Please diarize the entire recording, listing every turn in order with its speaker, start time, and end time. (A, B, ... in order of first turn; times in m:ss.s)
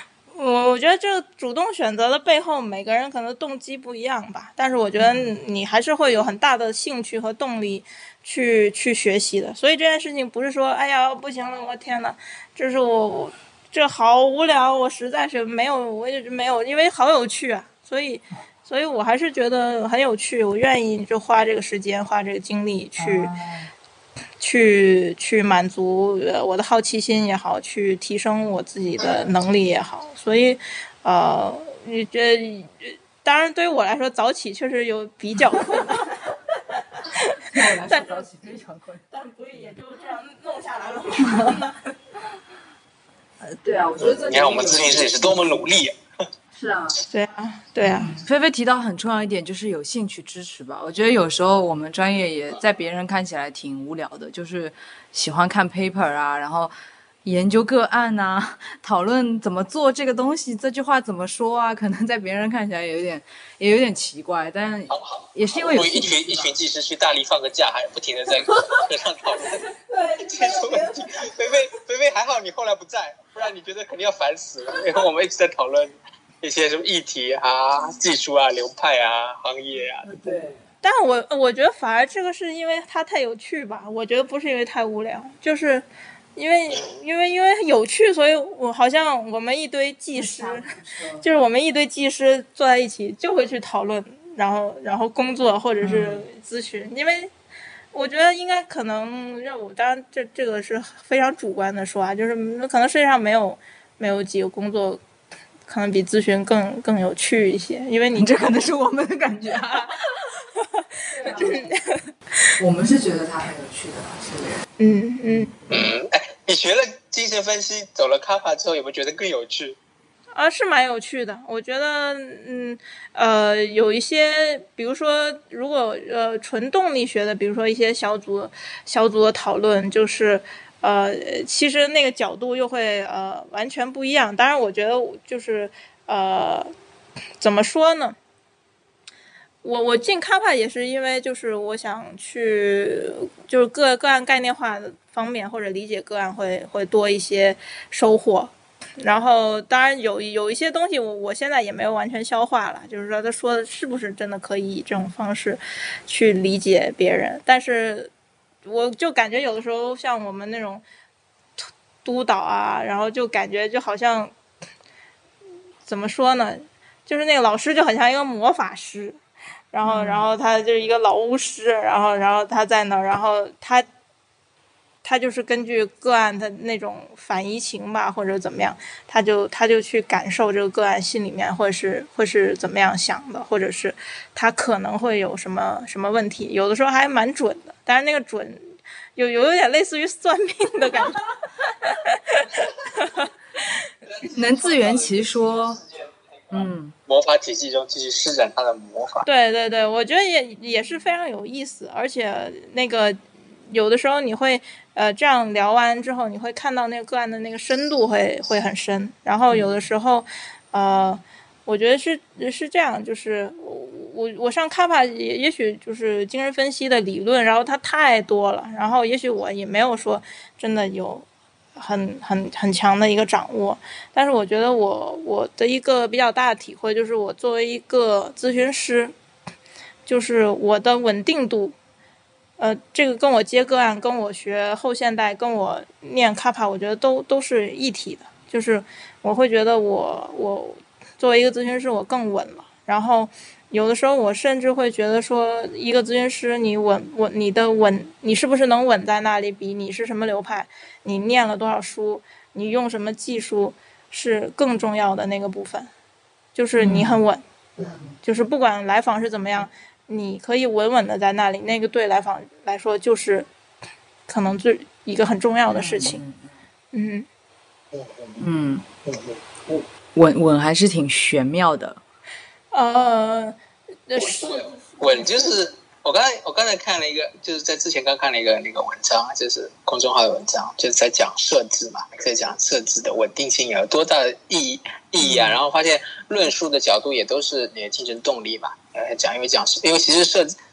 0:00.3-0:23.3 A
0:05.0-0:05.3 B
0:23.0-0:23.7 B
0:24.4-0:38.3 A
0:37.5-0:39.0 B
0:39.1-0:41.8 A
0:41.2-0:41.6 B
0:43.4-0:45.6 B
0:44.0-0:46.0 C
0:46.5-0:47.0 B
0:47.1-0:48.1 A
0:47.8-0:56.7 B
0:57.2-1:06.5 B
1:04.9-1:09.6 C
1:09.9-1:11.3 A
1:10.2-1:20.3 C
1:20.0-1:20.6 B
1:20.8-1:25.8 A
1:26.4-1:30.7 A
1:30.1-1:31.2 B
1:31.2-1:37.3 A
1:35.8-1:36.2 B
1:37.9-1:45.0 A
1:45.7-1:48.5 A
1:48.2-1:50.3 B
1:50.6-1:52.5 A
1:51.1-1:51.7 B
1:52.6-1:54.6 B
1:54.8-1:55.5 A
1:55.7-1:59.8 C
2:00.3-2:16.7 A
2:17.4-2:18.2 A
2:19.6-2:38.1 A
2:38.6-2:40.8 A
2:41.6-2:44.3 A
2:45.9-2:49.2 A
2:49.7-2:53.8 A
2:49.8-2:50.3 B
2:55.0-3:13.7 A
3:14.0-3:16.1 C
3:14.2-3:15.8 B
3:16.5-3:16.9 B
3:17.1-3:19.2 C
3:19.2-3:49.1 A
3:29.5-3:29.8 B
3:50.1-3:51.7 A
3:52.6-4:15.9 A
4:16.5-4:17.4 A
4:16.8-4:17.2 B
4:17.8-4:18.1 B
4:18.2-4:23.5 A
4:24.3-4:26.2 A
4:25.7-4:26.5 B
4:26.9-4:27.3 A
4:27.9-4:28.4 C
4:28.4-4:28.8 B
4:29.0-4:29.3 C
4:29.7-4:32.0 B
4:32.7-4:33.6 A
4:34.1-4:35.5 A
4:34.2-4:50.5 C
4:45.2-4:45.6 B